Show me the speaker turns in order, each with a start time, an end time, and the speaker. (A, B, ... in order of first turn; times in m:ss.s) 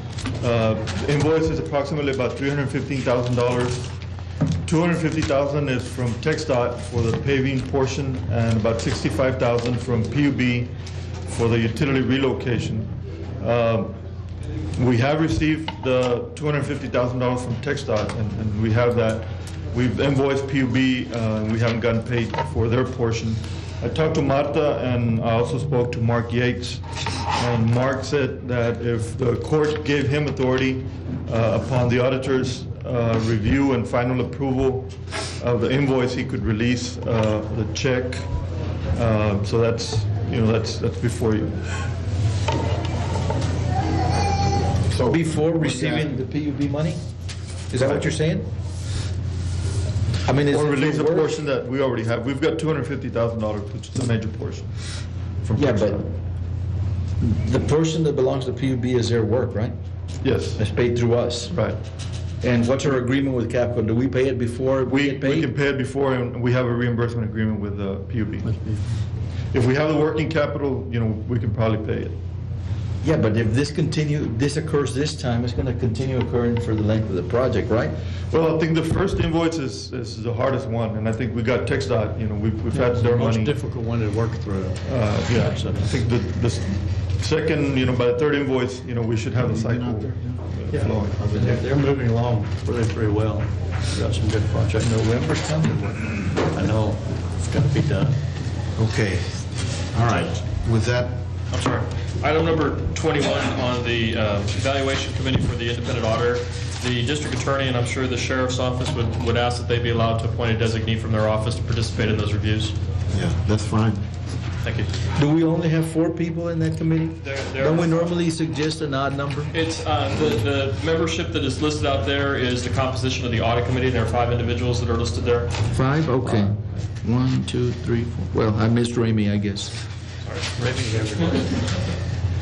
0:00.4-0:03.9 A
0:04.6-0:10.7 A
0:11.2-0:13.9 A
0:14.7-0:38.3 A
0:38.9-0:41.7 A
0:44.9-0:46.2 B
0:45.0-0:47.0 C
0:47.7-0:48.4 C
0:47.8-0:48.1 A
0:50.2-0:51.4 C
0:50.5-0:54.7 A
0:55.4-0:56.0 A
0:55.5-0:56.1 C
0:57.2-0:59.7 C
1:00.2-1:00.6 A
1:00.6-1:01.5 C
1:01.5-1:01.8 A
1:02.4-1:05.5 C
1:04.8-1:08.5 A
1:08.4-1:08.9 D
1:09.5-1:12.2 A
1:13.0-1:17.9 C
1:18.3-1:23.5 A
1:22.7-1:26.0 D
1:24.8-1:31.2 A
1:29.4-1:31.6 B
1:30.7-1:35.0 D
1:34.8-1:36.3 C
1:36.4-1:38.2 D
1:38.8-1:41.2 B
1:40.1-1:40.4 E
1:41.5-1:52.8 E
1:53.1-1:54.0 B
1:54.6-1:54.9 E
1:55.2-1:59.5 C
1:57.2-1:58.1 E
1:59.5-2:05.5 E
2:05.7-2:09.8 C
2:10.3-2:11.1 E
2:10.6-2:11.6 D